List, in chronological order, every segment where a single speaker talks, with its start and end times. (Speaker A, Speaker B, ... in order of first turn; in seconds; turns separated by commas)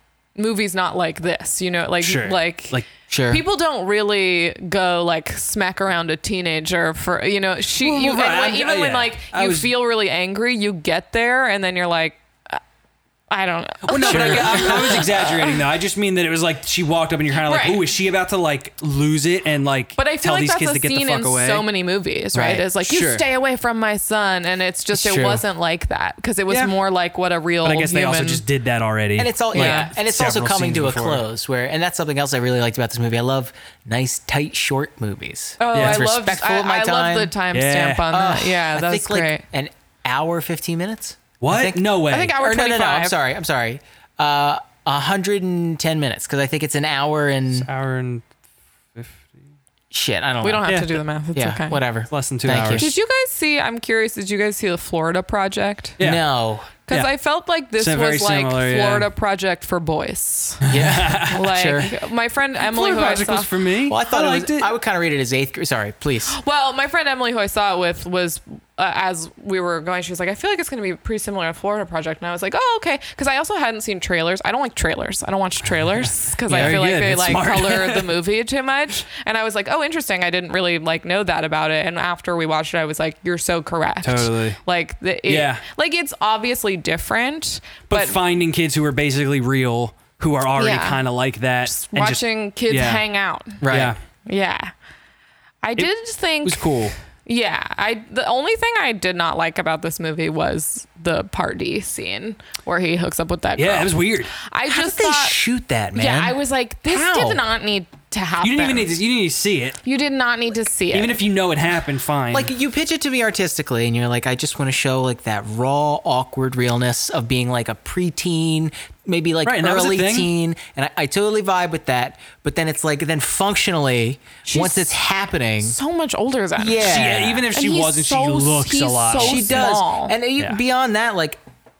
Speaker A: 0.3-2.8, Speaker B: 2.0-2.8, Speaker C: 3.1-3.4, Speaker A: 3.3-12.6, Speaker B: 7.8-9.7, Speaker A: 13.3-15.6, Speaker B: 13.8-21.6, Speaker C: 14.0-15.0, Speaker A: 17.4-17.8, Speaker A: 20.0-28.4, Speaker C: 22.3-22.6, Speaker B: 22.8-23.2, Speaker C: 24.9-25.4, Speaker B: 27.6-31.2, Speaker C: 29.2-37.3, Speaker A: 29.5-29.9, Speaker A: 35.6-39.4, Speaker B: 35.7-36.1, Speaker B: 37.5-38.0, Speaker C: 38.1-47.7, Speaker B: 41.4-42.4, Speaker A: 42.1-43.1, Speaker B: 47.5-48.2, Speaker B: 48.9-49.3, Speaker C: 49.9-50.7, Speaker A: 50.4-51.8, Speaker B: 50.6-50.9, Speaker C: 51.3-52.9, Speaker B: 52.1-52.9, Speaker A: 52.8-56.0, Speaker B: 56.0-56.2, Speaker C: 56.0-56.7, Speaker A: 56.9-60.6, Speaker B: 57.8-59.1, Speaker B: 60.6-61.5, Speaker C: 60.7-61.9, Speaker A: 61.3-63.5, Speaker B: 62.6-64.7, Speaker C: 63.9-66.4, Speaker A: 66.3-88.2, Speaker C: 76.5-76.8, Speaker B: 76.5-78.1, Speaker B: 84.0-84.6, Speaker B: 85.3-85.6, Speaker B: 87.9-93.0, Speaker A: 90.6-91.0, Speaker A: 91.7-93.6, Speaker C: 93.6-93.9, Speaker B: 93.6-94.0, Speaker A: 94.2-94.7, Speaker A: 95.6-105.4, Speaker B: 96.4-96.9, Speaker B: 103.5-104.3, Speaker C: 104.7-107.4, Speaker A: 105.9-108.9, Speaker B: 108.4-109.8, Speaker A: 109.8-111.2, Speaker B: 110.9-112.5, Speaker C: 112.3-125.8, Speaker B: 119.4-120.3, Speaker A: 124.5-124.9, Speaker A: 125.6-130.2, Speaker C: 126.6-127.5, Speaker B: 126.8-129.7, Speaker C: 129.2-131.4